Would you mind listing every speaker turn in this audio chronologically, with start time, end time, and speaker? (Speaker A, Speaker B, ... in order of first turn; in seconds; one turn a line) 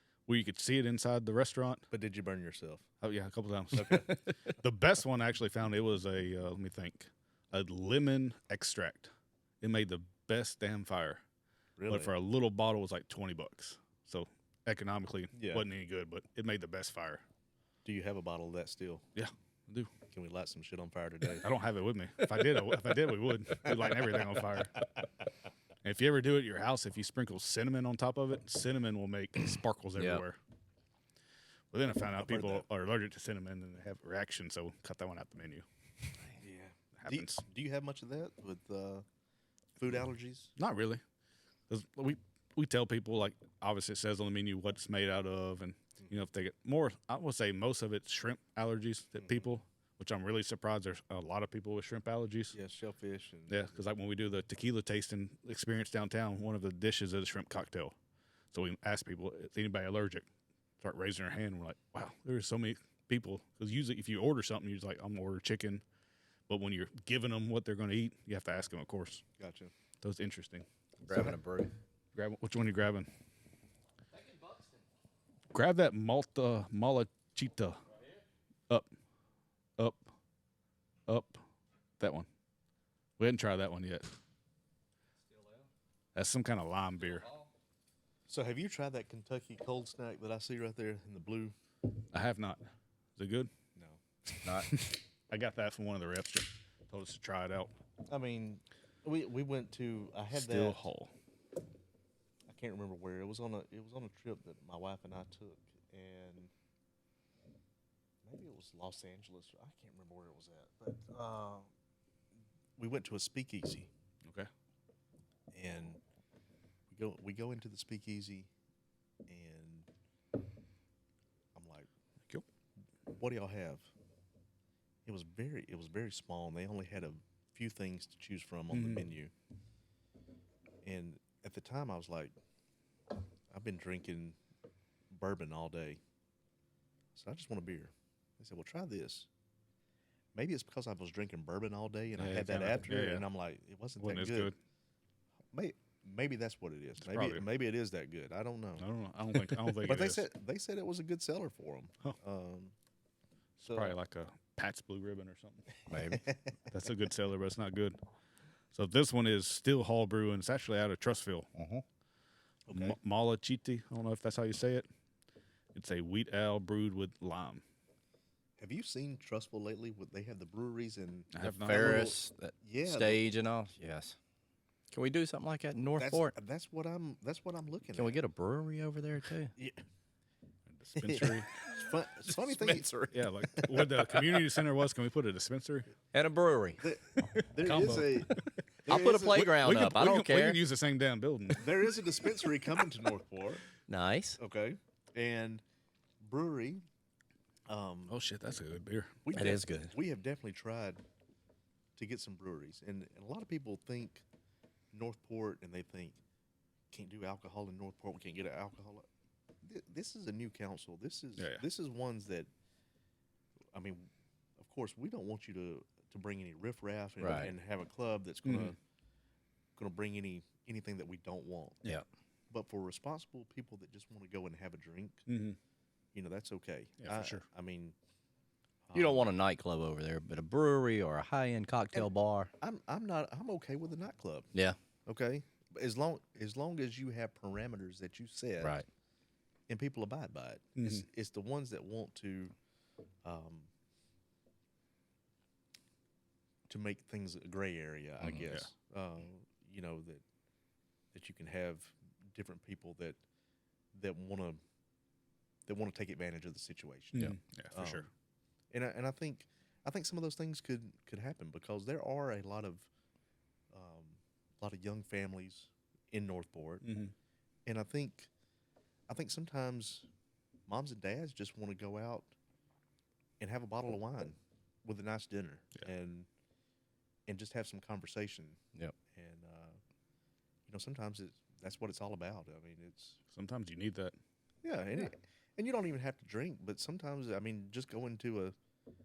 Speaker A: 0.3-1.8
Speaker B: 1.9-2.9
Speaker A: 3.0-11.2
Speaker B: 3.7-4.1
Speaker B: 11.8-12.1
Speaker A: 11.9-17.2
Speaker B: 15.3-15.7
Speaker B: 17.8-19.0
Speaker A: 19.1-19.9
Speaker B: 20.1-21.4
Speaker A: 21.4-24.8
Speaker B: 23.8-24.1
Speaker A: 25.8-30.4
Speaker C: 29.9-30.2
Speaker A: 31.7-35.6
Speaker B: 32.1-32.6
Speaker B: 36.4-39.0
Speaker A: 37.0-37.4
Speaker B: 39.8-40.5
Speaker A: 40.5-41.0
Speaker A: 41.7-52.5
Speaker B: 49.2-49.5
Speaker B: 52.5-53.7
Speaker A: 53.5-57.9
Speaker A: 58.5-60.2
Speaker A: 60.8-65.8
Speaker A: 66.5-69.2
Speaker B: 69.4-69.7
Speaker A: 70.0-70.7
Speaker C: 71.0-71.7
Speaker B: 71.1-71.3
Speaker A: 72.1-73.1
Speaker A: 75.5-77.8
Speaker A: 79.8-80.1
Speaker A: 81.1-81.4
Speaker A: 82.0-82.3
Speaker A: 83.2-84.1
Speaker A: 86.1-87.3
Speaker B: 88.3-91.5
Speaker A: 92.1-92.6
Speaker A: 93.2-93.5
Speaker A: 94.3-97.7
Speaker C: 94.4-94.7
Speaker B: 98.1-100.9
Speaker A: 100.3-101.1
Speaker B: 102.5-106.5
Speaker B: 108.2-111.7
Speaker B: 112.8-113.9
Speaker B: 115.5-116.0
Speaker B: 116.9-118.5
Speaker B: 119.3-119.9
Speaker B: 121.5-121.9
Speaker B: 123.1-123.9
Speaker B: 125.0-129.3
Speaker A: 128.7-129.1
Speaker B: 130.8-132.3
Speaker B: 133.5-134.4
Speaker B: 135.1-136.0
Speaker B: 137.1-139.3
Speaker B: 140.3-144.5
Speaker A: 142.2-143.3
Speaker A: 144.0-144.6
Speaker B: 145.5-152.7
Speaker A: 147.0-147.5
Speaker A: 148.8-150.2
Speaker A: 153.6-155.7
Speaker B: 153.6-153.9
Speaker C: 155.9-156.2
Speaker B: 156.1-156.5
Speaker A: 156.7-158.0
Speaker A: 158.7-161.5
Speaker C: 161.6-161.8
Speaker B: 162.7-163.0
Speaker A: 162.7-164.9
Speaker A: 165.7-167.6
Speaker B: 168.6-173.3
Speaker A: 171.3-172.1
Speaker C: 171.4-174.2
Speaker C: 174.9-176.3
Speaker B: 175.9-178.2
Speaker C: 177.9-179.5
Speaker B: 179.6-179.8
Speaker A: 180.7-181.5
Speaker B: 181.0-184.4
Speaker C: 182.4-183.0
Speaker A: 183.1-185.9
Speaker C: 186.1-186.8
Speaker B: 186.8-189.7
Speaker A: 187.4-188.4
Speaker C: 188.8-190.6
Speaker A: 189.5-191.7
Speaker B: 191.6-193.7
Speaker C: 193.9-194.4
Speaker B: 194.4-195.6
Speaker B: 196.2-196.8
Speaker B: 197.7-198.1
Speaker A: 198.1-199.2
Speaker B: 199.2-201.0
Speaker C: 199.3-199.9
Speaker B: 201.9-204.2
Speaker B: 204.9-206.2
Speaker B: 206.9-209.0
Speaker B: 209.6-212.5
Speaker A: 211.4-211.6
Speaker B: 213.7-218.8
Speaker C: 217.2-217.5
Speaker A: 218.4-218.8
Speaker B: 219.8-221.8
Speaker B: 222.5-225.2
Speaker A: 225.3-225.6
Speaker B: 226.1-227.9
Speaker A: 227.0-227.4
Speaker B: 228.9-229.2
Speaker C: 228.9-232.5
Speaker B: 232.6-234.5
Speaker B: 235.1-238.8
Speaker C: 238.6-238.8
Speaker B: 239.7-242.5
Speaker A: 240.8-241.0
Speaker B: 243.2-243.7
Speaker B: 246.7-250.2
Speaker B: 251.1-253.2
Speaker B: 253.9-254.6
Speaker B: 255.7-258.1
Speaker A: 257.1-258.1
Speaker B: 258.7-262.9
Speaker B: 263.7-266.8
Speaker A: 266.8-267.1
Speaker B: 267.6-268.3
Speaker B: 269.1-270.1
Speaker B: 270.7-272.3
Speaker B: 273.4-276.3
Speaker B: 277.3-278.6
Speaker B: 279.1-279.8
Speaker B: 280.7-283.2
Speaker A: 283.3-284.1
Speaker B: 284.6-288.5